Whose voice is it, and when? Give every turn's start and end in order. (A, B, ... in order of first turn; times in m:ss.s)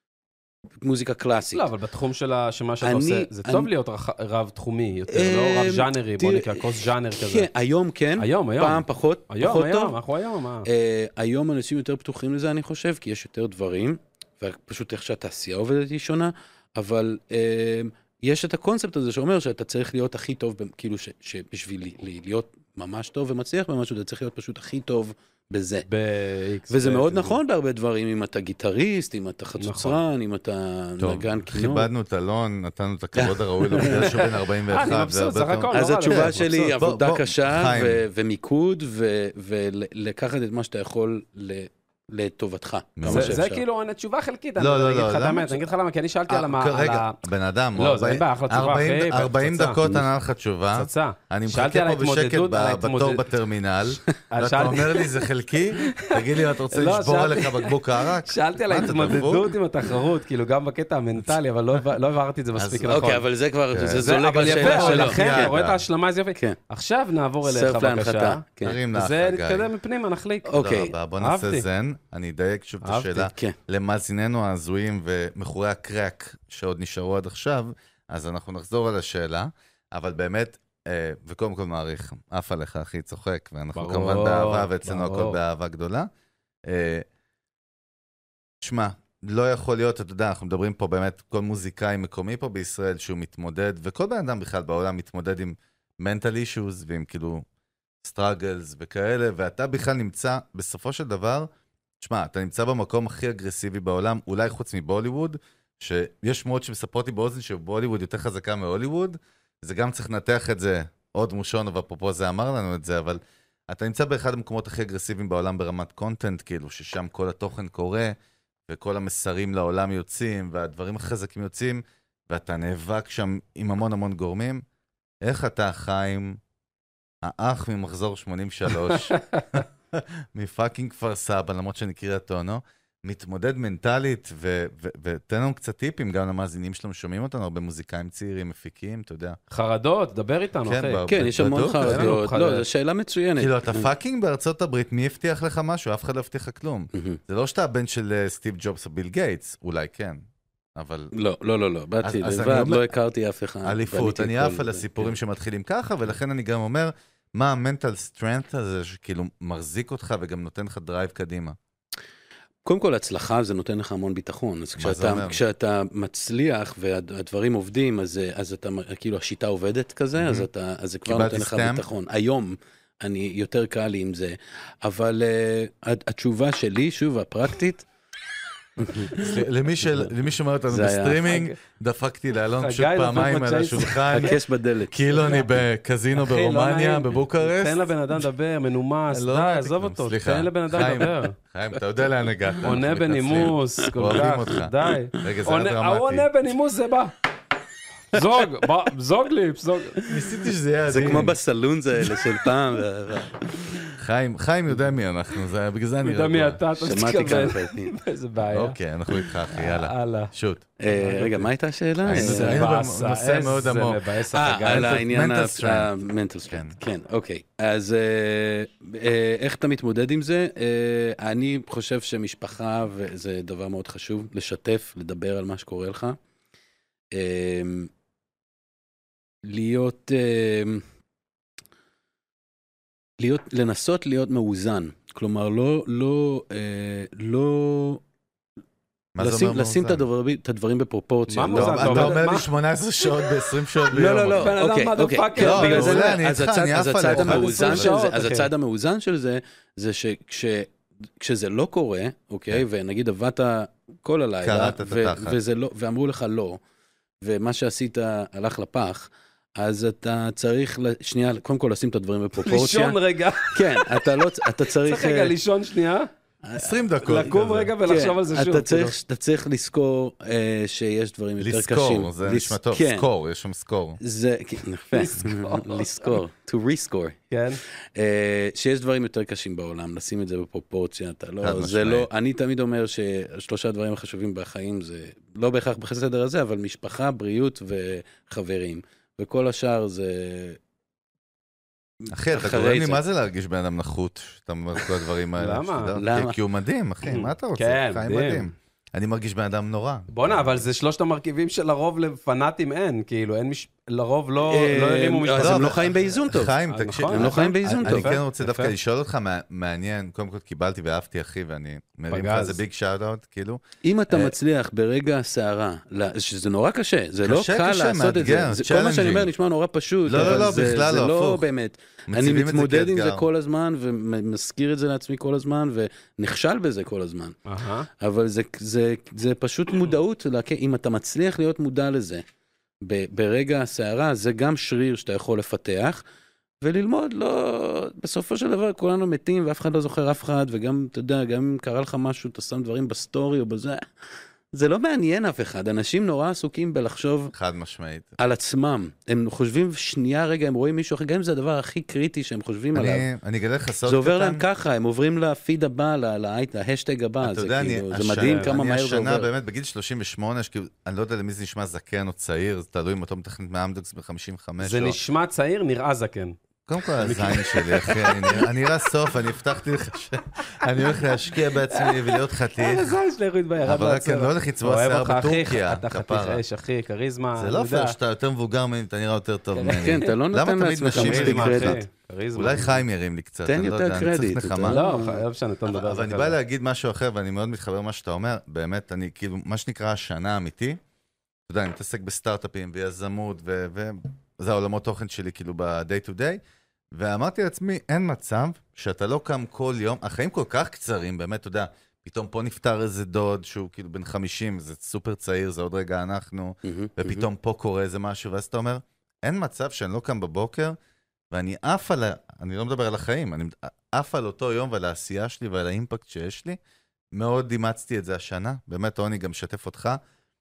0:00.8-0:01.6 A
0:01.5-0:07.5 B
0:02.8-0:03.7 A
0:05.1-0:10.0 A
0:08.2-0:10.7 B
0:10.6-0:25.9 A
0:25.9-0:27.4 B
0:26.7-0:31.9 A
0:29.6-0:30.0 B
0:31.0-0:38.0 C
0:33.2-0:34.3 A
0:33.8-0:36.4 B
0:35.7-0:43.6 A
0:43.0-0:43.4 C
0:43.1-0:47.2 B
0:44.6-0:45.6 C
0:46.3-0:59.5 C
0:47.8-0:50.0 B
0:50.7-0:53.2 B
0:54.3-0:55.3 B
0:55.8-1:03.2 B
1:02.5-1:03.1 C
1:02.9-1:05.5 A
1:03.7-1:05.8 C
1:04.0-1:10.5 B
1:07.4-1:08.8 A
1:08.6-1:09.7 C
1:10.4-1:10.9 A
1:10.6-1:26.1 C
1:11.2-1:11.6 B
1:12.8-1:13.2 B
1:13.3-1:13.6 A
1:23.8-1:25.4 B
1:26.6-1:27.0 C
1:28.6-1:37.4 C
1:38.0-1:41.5 C
1:42.0-1:58.1 C
1:58.7-2:04.6 C
2:05.2-2:06.4 C
2:07.2-2:19.4 C
2:19.5-2:21.0 B
2:20.6-2:22.2 C
2:21.1-2:23.9 A
2:21.8-2:22.6 B
2:23.4-2:30.2 C
2:26.9-2:27.2 A
2:30.8-2:31.1 C
2:31.1-2:35.2 A
2:32.0-2:32.9 C
2:33.6-2:41.6 C
2:42.6-2:57.8 A
2:44.8-2:45.4 C
2:50.2-2:50.5 C
2:51.0-2:51.8 C
2:58.8-2:59.4 A
2:59.1-3:04.4 C
3:00.7-3:01.5 A
3:02.6-3:04.4 B
3:04.1-3:05.3 A
3:04.9-3:07.9 C
3:05.2-3:05.4 B
3:06.1-3:11.4 B
3:09.1-3:16.3 C
3:12.6-3:17.1 B
3:18.1-3:20.1 B
3:20.1-3:21.3 C
3:20.8-3:23.9 A
3:24.0-3:26.6 C
3:26.0-3:30.3 B
3:26.8-3:27.9 A
3:28.5-3:30.7 C
3:30.8-3:32.6 A
3:31.0-3:31.4 B
3:32.0-3:34.0 C
3:32.1-3:35.0 B
3:34.3-3:46.2 A
3:34.6-3:35.9 C
3:36.5-3:36.8 C
3:47.1-3:47.9 A
3:49.4-3:50.8 A
3:53.2-3:58.0 A
3:59.1-4:00.0 C
3:59.2-4:02.2 A
4:01.3-4:02.4 B
4:01.4-4:04.5 C
4:03.9-4:16.6 A
4:04.4-4:06.2 B
4:05.4-4:07.9 C
4:07.1-4:08.5 B
4:14.4-4:15.4 C
4:17.2-4:23.0 A
4:22.4-4:26.1 B
4:23.5-4:25.3 A
4:26.4-4:26.8 A
4:26.6-4:27.7 C
4:27.0-4:28.9 B
4:27.8-4:33.1 A
4:31.4-4:34.0 C
4:34.0-4:37.2 A
4:34.9-4:36.2 B
4:37.3-4:37.6 B
4:37.9-4:50.6 A
4:41.4-4:42.1 C
4:52.0-4:53.0 A
4:52.1-5:00.5 C
4:55.4-4:56.0 B
4:55.9-4:56.4 A
4:57.0-4:58.5 B
5:00.1-5:05.8 B
5:04.4-5:06.6 A
5:05.4-5:14.3 C
5:06.7-5:08.7 B
5:07.1-5:08.1 A
5:12.1-5:12.6 B
5:13.8-5:27.4 A
5:17.2-5:19.3 C
5:20.0-5:21.4 C
5:22.1-5:23.2 C
5:27.4-5:27.9 B
5:27.9-5:32.2 A
5:32.8-5:36.0 A
5:36.6-5:43.8 A
5:44.5-5:47.3 A
5:47.3-5:48.1 C
5:48.2-5:53.1 A
5:52.7-5:54.4 C
5:53.8-5:59.3 A
5:57.2-6:05.0 C
5:58.2-5:58.5 B
6:04.6-6:08.5 B
6:06.7-6:13.0 C
6:11.7-6:18.0 B
6:13.6-6:16.4 C
6:17.4-6:21.8 C
6:19.6-6:20.1 B
6:19.7-6:21.8 A
6:20.9-6:22.8 B
6:22.3-6:24.8 C
6:23.4-6:25.2 A
6:24.6-6:26.3 B
6:25.7-6:30.8 C
6:31.5-6:36.4 C
6:36.9-6:50.8 C
6:46.6-6:47.3 A
6:51.3-6:56.6 C
6:57.1-7:00.0 C